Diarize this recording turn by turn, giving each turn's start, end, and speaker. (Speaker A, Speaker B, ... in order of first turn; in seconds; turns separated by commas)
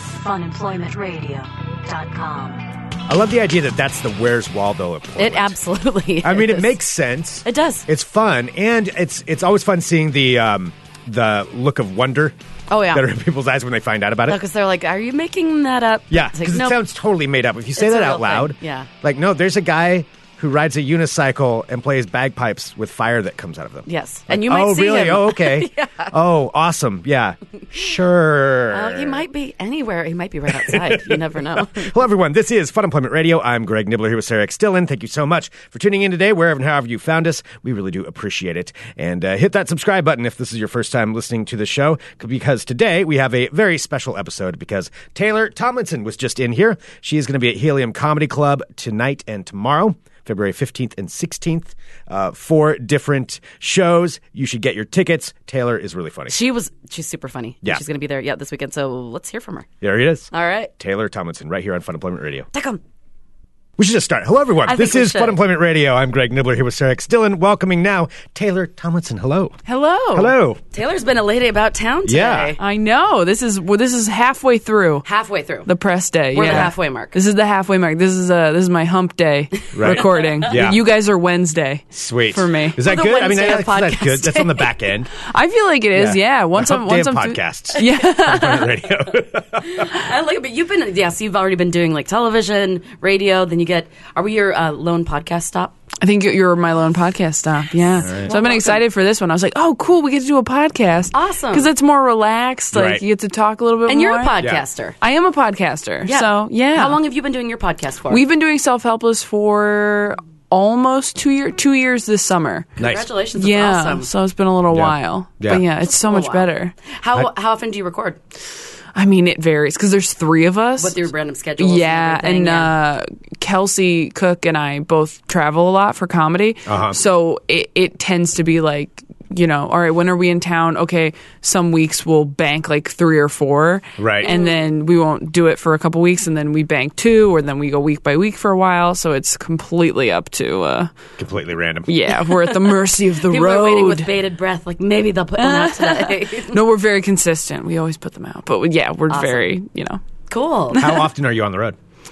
Speaker A: 0.1-1.5, Speaker A: 2.0-2.6, Speaker B: 3.1-5.5, Speaker A: 5.2-6.8, Speaker B: 6.2-12.3, Speaker A: 7.4-7.8, Speaker A: 12.7-13.1, Speaker B: 12.9-14.4, Speaker A: 14.3-16.8, Speaker B: 16.1-29.2, Speaker A: 17.8-18.9, Speaker A: 23.9-26.1, Speaker A: 28.7-31.9, Speaker B: 30.5-56.4, Speaker A: 56.3-59.7, Speaker B: 59.8-62.5, Speaker A: 60.3-60.7, Speaker A: 62.5-62.8, Speaker B: 63.8-69.5, Speaker A: 64.6-65.4, Speaker C: 69.6-70.3, Speaker B: 70.1-70.6, Speaker A: 70.7-72.6, Speaker B: 72.0-72.5, Speaker C: 72.6-75.0, Speaker A: 75.0-75.7, Speaker C: 75.6-82.8, Speaker A: 76.3-77.1, Speaker B: 76.4-76.7, Speaker B: 79.7-80.8, Speaker A: 79.8-80.2, Speaker B: 81.9-85.1, Speaker A: 82.8-84.8, Speaker C: 85.2-88.7, Speaker B: 85.9-89.9, Speaker A: 89.6-95.7, Speaker C: 96.0-104.4, Speaker B: 98.0-98.3, Speaker A: 98.1-98.8, Speaker A: 101.1-101.7, Speaker B: 102.7-103.0, Speaker A: 103.9-105.0, Speaker C: 105.0-107.0, Speaker A: 106.0-108.2, Speaker C: 108.1-112.8, Speaker B: 112.8-113.1, Speaker A: 112.8-114.1, Speaker C: 113.3-116.7, Speaker B: 114.7-115.6, Speaker A: 115.8-118.2, Speaker C: 119.0-121.1, Speaker A: 120.8-122.8, Speaker C: 121.6-140.9, Speaker B: 126.7-127.0, Speaker B: 134.0-134.3, Speaker A: 134.2-134.6, Speaker B: 141.2-141.9, Speaker C: 141.9-144.1, Speaker A: 143.2-146.6, Speaker C: 145.4-150.0, Speaker A: 149.1-149.4, Speaker A: 150.3-150.9, Speaker B: 150.7-151.8, Speaker C: 150.7-151.0